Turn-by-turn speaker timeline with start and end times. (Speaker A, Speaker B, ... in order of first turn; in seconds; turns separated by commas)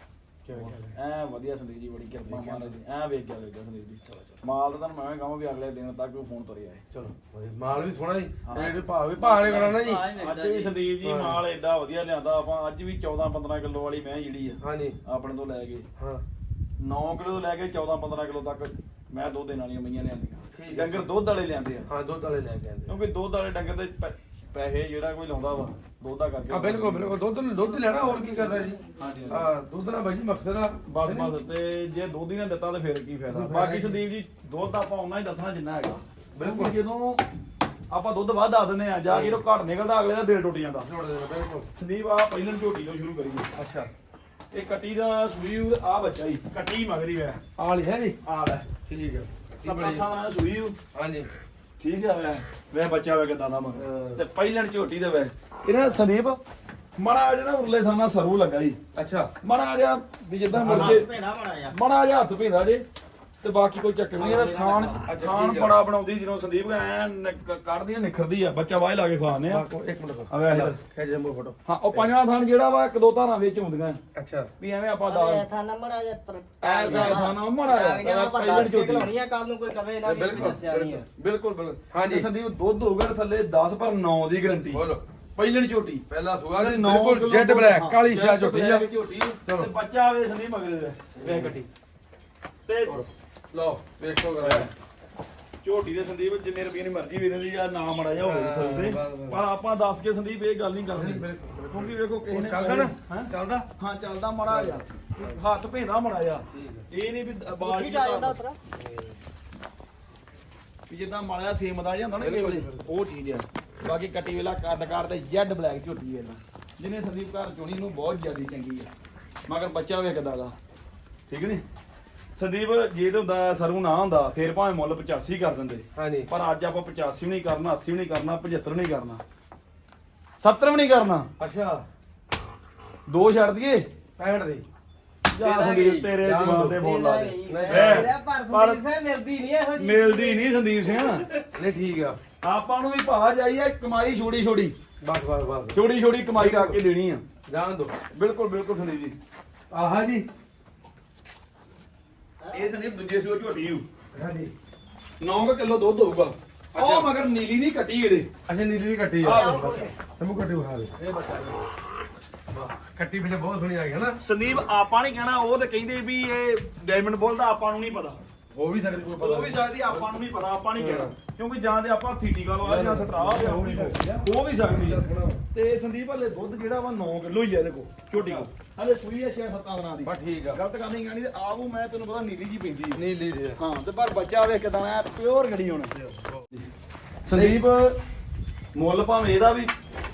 Speaker A: 0.5-0.9, Speaker B: 0.5-6.8, Speaker A: 2.3-2.7, Speaker A: 6.9-10.1, Speaker B: 8.4-8.9, Speaker C: 9.2-10.8, Speaker B: 9.4-15.9, Speaker A: 11.0-11.4, Speaker A: 14.6-15.0, Speaker A: 16.0-16.2, Speaker B: 16.8-21.9, Speaker A: 20.5-21.1, Speaker A: 21.9-22.9, Speaker B: 22.9-27.1, Speaker A: 26.5-31.3, Speaker B: 29.0-29.5, Speaker B: 30.9-37.2, Speaker A: 33.3-34.0, Speaker A: 36.4-36.8, Speaker B: 37.9-40.9, Speaker A: 39.1-39.4, Speaker A: 40.8-41.7, Speaker B: 41.8-43.5, Speaker A: 43.5-43.9, Speaker B: 44.5-47.4, Speaker A: 47.6-48.2, Speaker B: 48.2-48.7, Speaker A: 48.9-50.0, Speaker B: 49.6-50.8, Speaker A: 50.9-51.3, Speaker B: 51.8-56.4, Speaker A: 53.8-54.2, Speaker B: 57.0-58.8, Speaker A: 59.0-59.3, Speaker B: 59.4-61.1, Speaker A: 60.5-61.0, Speaker C: 60.7-61.8, Speaker B: 61.7-62.8, Speaker B: 63.4-69.7, Speaker C: 64.2-65.0, Speaker A: 65.0-65.8, Speaker A: 69.5-72.1, Speaker B: 70.3-70.8, Speaker B: 71.7-74.0, Speaker A: 74.2-74.5, Speaker B: 74.6-75.5, Speaker C: 75.1-81.1, Speaker B: 76.6-79.1, Speaker A: 76.9-77.2, Speaker A: 80.0-81.0, Speaker B: 80.4-80.6, Speaker B: 81.2-84.8, Speaker A: 81.9-82.3, Speaker A: 84.7-85.0, Speaker B: 85.4-91.7, Speaker A: 86.1-88.9, Speaker A: 89.5-89.7, Speaker A: 91.2-91.5, Speaker B: 92.7-93.0, Speaker A: 92.8-94.7, Speaker B: 94.4-94.7, Speaker B: 95.6-108.4, Speaker A: 98.2-99.4, Speaker A: 100.9-103.7, Speaker A: 104.5-105.4, Speaker A: 106.5-106.9, Speaker C: 107.6-108.6, Speaker A: 108.8-109.2, Speaker B: 110.9-118.9, Speaker A: 112.2-112.8, Speaker B: 119.5-120.5, Speaker B: 121.3-121.6, Speaker B: 122.4-129.2, Speaker A: 126.0-126.3, Speaker B: 130.4-131.3, Speaker A: 131.4-131.8, Speaker B: 133.1-133.9, Speaker A: 134.2-134.7, Speaker B: 135.3-138.8, Speaker C: 135.3-136.2, Speaker A: 136.2-136.8, Speaker C: 136.7-140.5, Speaker A: 137.5-138.1, Speaker B: 139.8-141.2, Speaker A: 141.6-142.2, Speaker B: 142.4-144.8, Speaker A: 145.0-145.8, Speaker B: 145.7-147.2, Speaker A: 146.4-146.8, Speaker A: 147.5-147.9, Speaker B: 148.1-149.2, Speaker A: 149.7-150.3, Speaker C: 152.4-152.7, Speaker B: 152.5-153.8, Speaker A: 154.1-154.5, Speaker B: 155.2-158.3, Speaker A: 156.8-157.1, Speaker A: 158.5-160.9, Speaker B: 159.2-159.9, Speaker C: 159.3-159.9, Speaker B: 161.0-161.6, Speaker A: 162.5-164.2, Speaker B: 164.2-168.2, Speaker A: 168.5-170.1, Speaker B: 169.2-183.0, Speaker A: 170.8-171.1, Speaker A: 172.6-175.4, Speaker A: 178.2-178.5, Speaker A: 180.0-180.6, Speaker A: 182.9-183.6, Speaker B: 183.6-185.9, Speaker A: 186.0-186.3, Speaker B: 187.2-188.0, Speaker A: 187.3-187.6, Speaker B: 188.8-189.7